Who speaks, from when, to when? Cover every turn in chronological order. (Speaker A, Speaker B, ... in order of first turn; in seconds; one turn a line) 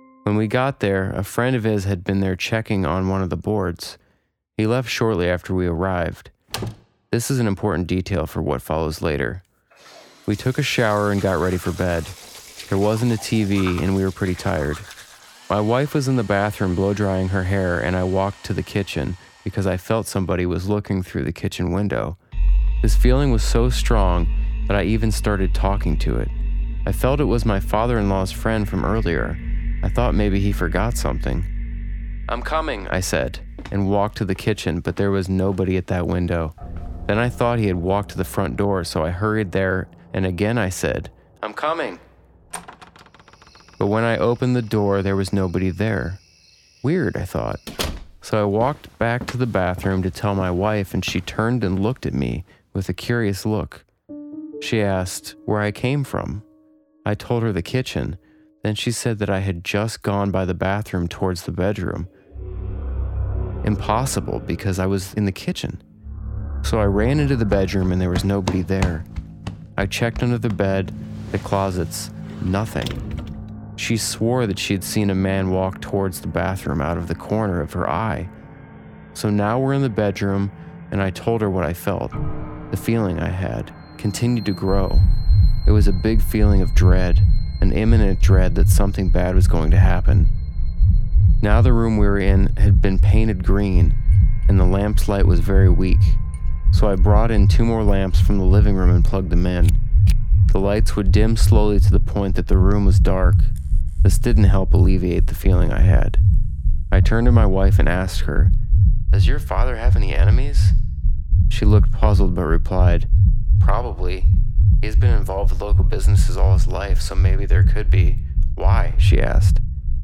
Speaker A: 0.2-4.0
Speaker A: 4.6-6.3
Speaker A: 7.1-9.4
Speaker A: 10.3-12.2
Speaker A: 12.7-14.9
Speaker A: 15.5-22.2
Speaker A: 22.8-26.3
Speaker A: 26.9-31.5
Speaker A: 32.3-36.5
Speaker A: 37.1-42.0
Speaker A: 43.8-46.2
Speaker A: 46.8-47.6
Speaker A: 48.2-53.9
Speaker A: 54.6-56.5
Speaker A: 57.0-62.1
Speaker A: 63.6-65.8
Speaker A: 66.6-69.1
Speaker A: 69.8-73.0
Speaker A: 73.8-78.3
Speaker A: 79.1-82.2
Speaker A: 82.7-85.1
Speaker A: 85.7-90.3
Speaker A: 91.4-94.0
Speaker A: 94.5-96.2
Speaker A: 96.7-99.8
Speaker A: 100.5-106.2
Speaker A: 106.9-108.5
Speaker A: 109.1-110.8
Speaker A: 111.5-114.3
Speaker A: 114.8-119.6